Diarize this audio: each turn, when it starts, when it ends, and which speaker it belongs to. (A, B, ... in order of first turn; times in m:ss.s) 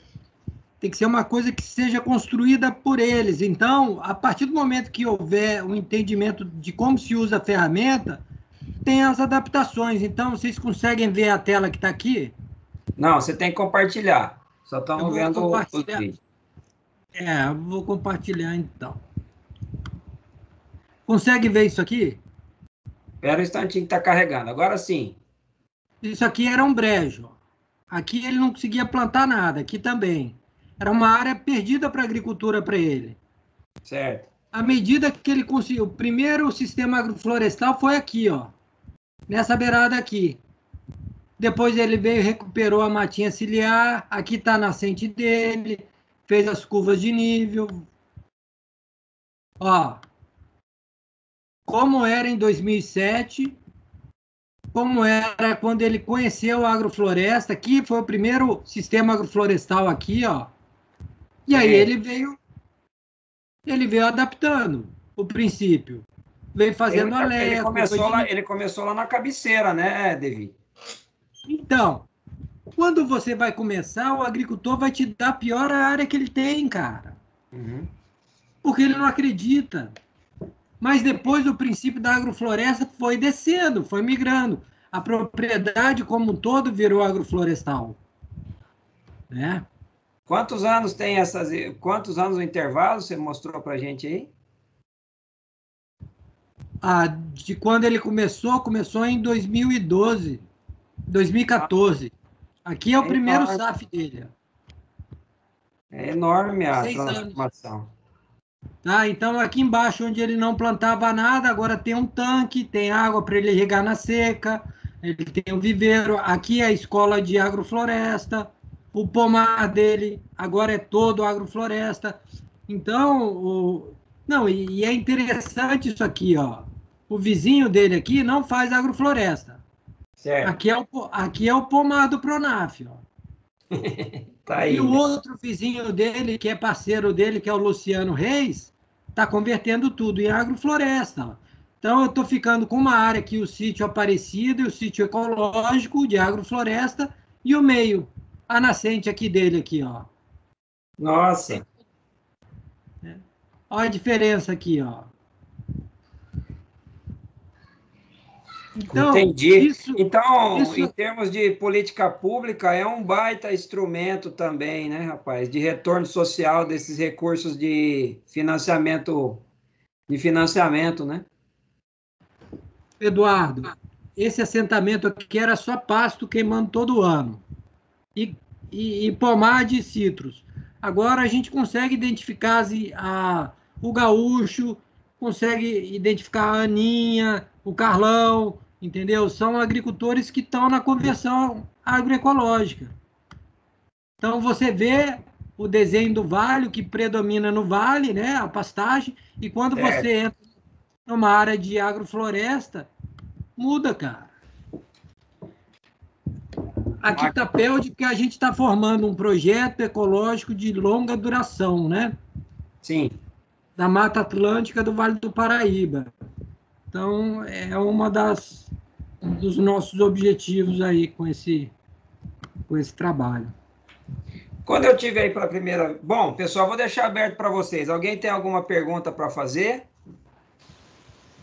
0:00.8-0:08.2 A
0:08.8-0:12.3 A
0:13.0-0:16.2 B
0:15.0-0:16.0 A
0:17.1-0:19.0 A
0:21.1-0:22.2 A
0:23.2-0:25.2 B
0:26.0-0:27.4 A
0:27.9-0:33.2 A
0:33.8-0:34.3 B
0:34.5-0:38.5 A
0:39.3-0:40.4 A
0:41.4-0:47.8 A
0:49.6-0:50.0 A
0:51.7-0:53.6 A
0:54.7-1:00.5 A
1:01.5-1:02.4 A
1:01.5-1:01.9 B
1:03.7-1:08.3 A
1:06.9-1:10.5 B
1:11.5-1:12.1 A
1:12.8-1:17.2 A
1:17.5-1:17.9 B
1:18.6-1:19.9 A
1:20.8-1:28.0 A
1:29.3-1:29.6 A
1:30.3-1:34.3 B
1:36.8-1:40.4 A
1:41.1-1:42.1 A
1:42.6-1:44.3 A
1:43.0-1:43.6 B
1:45.9-1:47.9 B
1:46.7-1:47.4 A
1:48.8-2:09.6 A
2:10.2-2:10.6 B
2:10.4-2:13.0 A
2:13.7-2:15.0 B
2:14.6-2:30.1 A
2:31.0-2:31.6 B
2:33.0-2:35.1 A
2:38.8-2:40.9 A
2:38.9-2:49.4 B
2:50.1-2:51.2 B
2:53.0-2:57.4 A
2:58.2-3:12.9 A
3:14.2-3:20.4 A
3:19.7-3:20.1 B
3:21.1-3:22.9 A
3:23.6-3:24.3 A
3:27.0-3:32.1 A
3:27.0-3:27.4 B
3:32.8-3:33.2 B
3:33.8-3:36.1 A
3:36.9-3:38.7 A
3:39.2-3:41.7 A
3:42.7-3:43.5 A
3:44.6-3:49.9 B